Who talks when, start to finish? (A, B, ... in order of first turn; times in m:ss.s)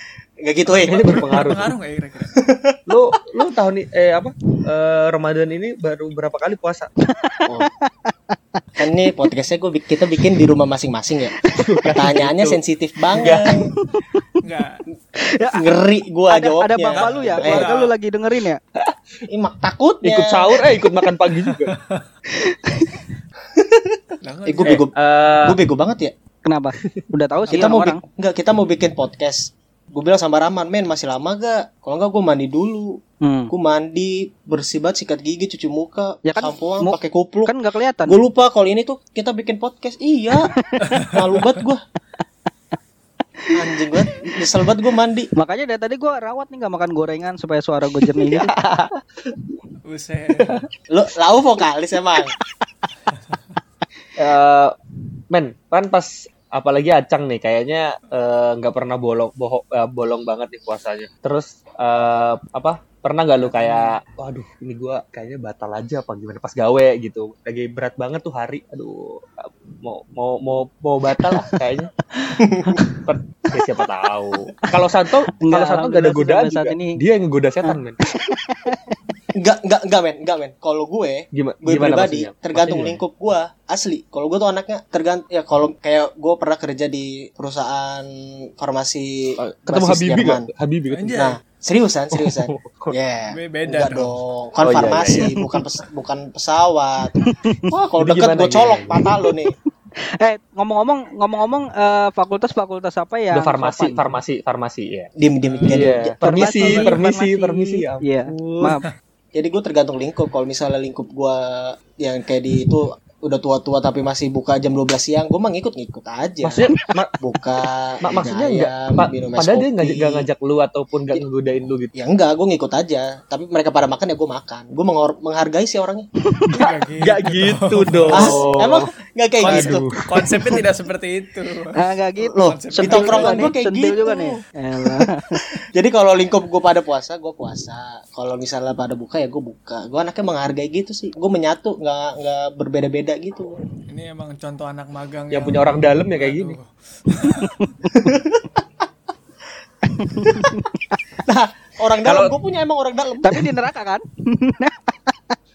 0:00.4-0:01.2 A
0:00.7-0:02.4 B
0:00.8-0:01.7 C
0:02.4-0:02.8 A
0:02.9-0:06.9 C
0:07.0-0:08.6 D
0:08.8-0:11.3 A
0:11.5-0:12.6 C
0:11.9-0:13.7 A
0:13.1-0:13.5 C
0:13.8-0:14.2 D
0:14.4-0:14.8 B
0:15.2-0:15.7 D
0:15.5-0:17.6 A
0:16.3-0:18.6 D
0:17.0-0:17.9 B
0:19.3-0:20.6 A
0:20.0-0:21.7 C
0:21.4-0:22.0 B
0:22.3-0:23.0 D
0:23.5-0:24.9 A
0:24.2-0:24.8 B
0:24.7-0:25.6 C
0:25.4-0:26.1 A
0:26.4-0:28.0 D
0:27.5-0:37.5 A
0:33.2-0:33.5 D
0:36.2-0:38.2 D
0:38.0-0:40.5 A
0:40.4-0:41.0 D
0:41.1-0:41.8 A
0:43.5-0:45.3 A
0:45.4-0:48.5 D
0:48.1-0:49.0 C
0:49.8-0:50.6 B
0:50.9-0:52.3 A
0:54.2-0:54.7 C
0:55.3-1:11.9 C
1:03.4-1:04.0 B
1:12.2-1:13.0 D
1:12.4-1:12.8 A
1:13.0-1:18.0 C
1:15.4-1:17.0 D
1:17.7-1:19.1 D
1:19.4-1:30.5 A
1:21.3-1:23.0 C
1:29.4-1:31.2 C
1:30.9-1:31.4 B
1:31.1-1:39.5 A
1:32.1-1:32.9 C
1:33.3-1:34.2 B
1:34.6-1:35.3 C
1:35.1-1:35.5 D
1:37.2-1:37.7 D
1:38.0-1:39.0 C
1:40.2-1:44.0 D
1:43.3-1:45.1 C
1:45.2-1:46.1 A
1:45.4-1:47.0 B
1:45.7-1:48.8 C
1:46.2-1:48.8 D
1:49.3-1:56.7 A
1:56.4-1:57.1 C
1:57.2-2:00.3 A
1:58.0-2:01.9 C
2:01.9-2:06.1 A
2:06.2-2:06.6 D
2:06.5-2:08.9 C
2:06.6-2:08.4 B
2:08.1-2:09.8 A
2:09.4-2:13.5 B
2:09.4-2:10.0 C
2:11.8-2:15.4 D
2:12.3-2:15.1 A
2:15.6-2:23.5 A
2:23.9-2:27.8 B
2:25.3-2:26.6 C
2:27.9-2:28.6 A
2:30.0-2:31.0 D
2:30.2-2:30.6 A
2:31.2-2:33.5 A
2:32.0-2:32.3 C
2:33.2-2:35.3 D